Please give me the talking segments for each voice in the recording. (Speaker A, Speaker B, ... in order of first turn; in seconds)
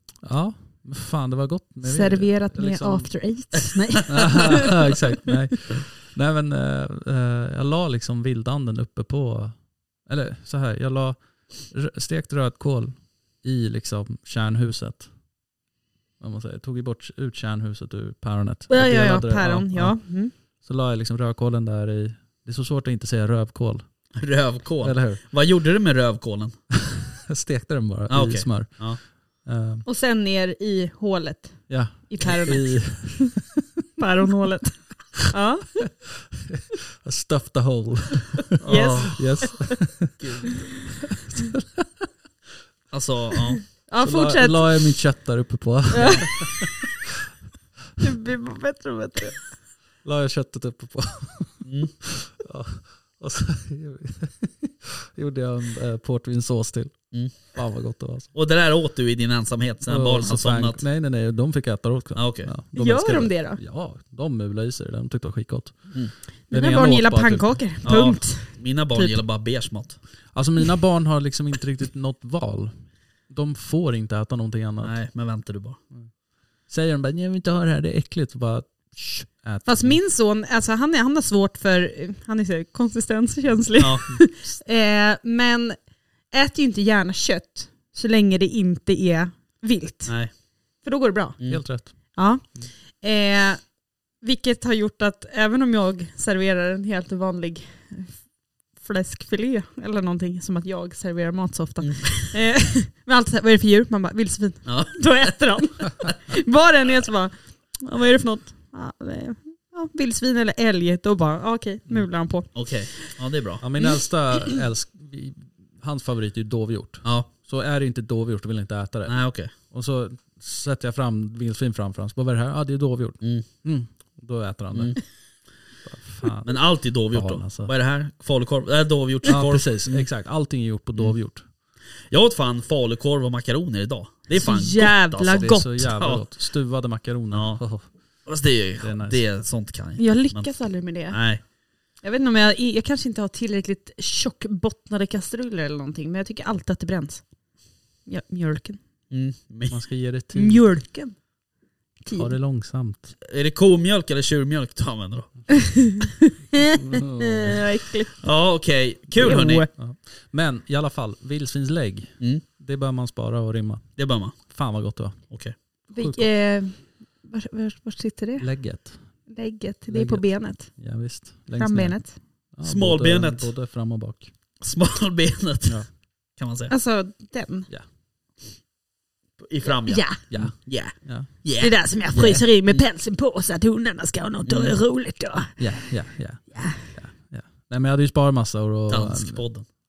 Speaker A: 0.2-3.1, 4.1-15.1, 16.2-23.8, 24.8-25.2, 26.9-29.8, 31.7-33.5, 36.3-40.3, 41.1-42.1, 44.0-46.9, 50.0-58.3, 59.9-66.0, 66.5-67.6, 70.3-74.9, 76.7-80.0, 91.5-92.0, 113.6-125.0, 125.8-126.5, 127.1-127.7, 129.3-131.4, 135.3-137.9, 138.8-139.2, 149.7-150.7, 152.1-153.1, 156.8-157.6, 159.3-165.3, 165.9-166.3, 168.4-169.0, 169.9-172.0, 172.5-174.3, 180.3-181.3, 182.1-182.4, 185.6-189.4
Speaker B: 1.8-4.7, 18.7-20.3, 29.8-33.2, 34.0-35.9, 38.6-39.7, 43.9-44.8, 45.9-46.3, 48.0-49.4, 62.7-63.6, 66.5-69.2, 79.6-85.8, 86.3-90.3, 90.8-113.1, 134.3-135.9, 140.0-141.2, 142.0-147.2, 148.1-148.8, 150.3-151.2, 152.0-152.3, 155.6-158.1, 159.2-159.7, 165.9-168.5, 169.3-170.7, 171.5-172.2, 176.7-177.7, 179.8-180.2, 181.6-185.9, 186.5-186.8
Speaker C: 24.1-26.6, 28.1-29.0, 38.6-39.4, 40.2-40.8, 42.9-43.6, 51.6-52.0, 57.1-57.5, 58.3-60.8, 62.1-62.5, 67.8-70.0, 74.8-75.8, 83.8-84.1, 90.0-90.3, 101.8-102.3, 104.6-105.4, 112.5-113.6, 117.0-117.3, 119.1-119.5, 124.7-125.0, 126.4-130.1, 132.1-136.2, 137.3-137.6, 138.2-141.4, 149.1-149.8, 153.2-155.8, 158.2-159.7, 164.0-164.4, 165.3-165.6, 172.6-173.5, 174.6-176.7, 179.4-181.8, 184.4-184.8, 188.9-189.7